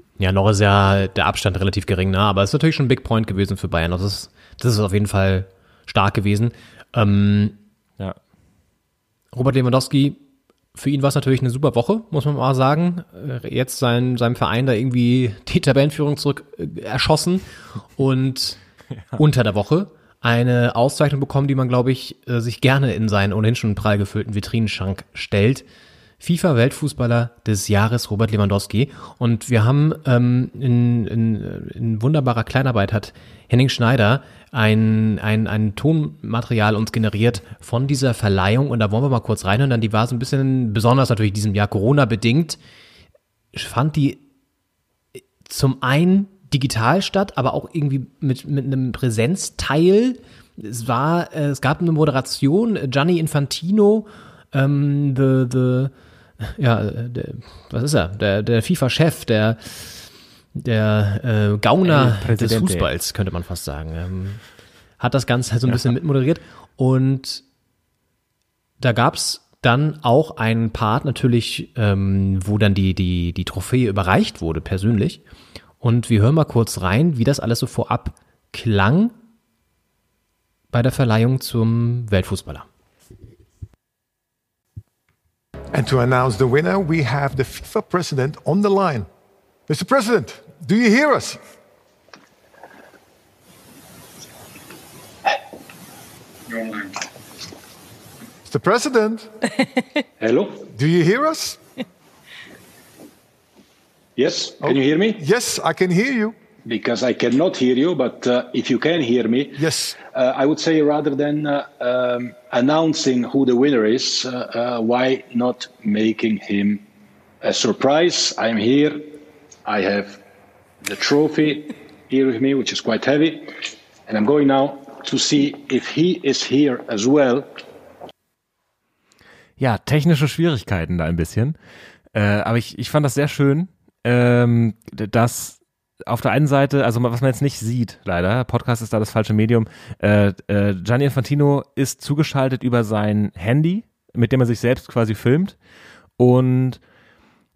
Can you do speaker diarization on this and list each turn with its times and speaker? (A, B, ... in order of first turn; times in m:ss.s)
0:00.2-0:07.6 A
0:09.3-0:10.2 A
0:10.8-0:18.6 A
0:19.2-0:25.6 A
0:26.2-0:42.6 A
0:43.5-0:44.2 A
0:45.4-1:04.4 A
1:01.8-1:02.9 B
1:05.0-1:07.4 A
1:08.8-1:15.2 A
1:15.8-1:19.1 A
1:20.7-1:22.7 A
1:25.7-1:29.1 C
1:29.7-1:31.4 C
1:36.5-1:36.9 D
1:38.4-1:39.3 C
1:40.2-1:40.7 D
1:40.7-1:41.6 C
1:44.2-1:45.2 D
1:44.6-1:46.4 C
1:46.6-1:56.8 D
1:49.6-1:50.0 C
1:57.4-2:00.2 D
2:00.8-2:07.5 D
2:09.6-2:11.6 B
2:12.1-2:25.6 B
2:26.2-2:26.8 B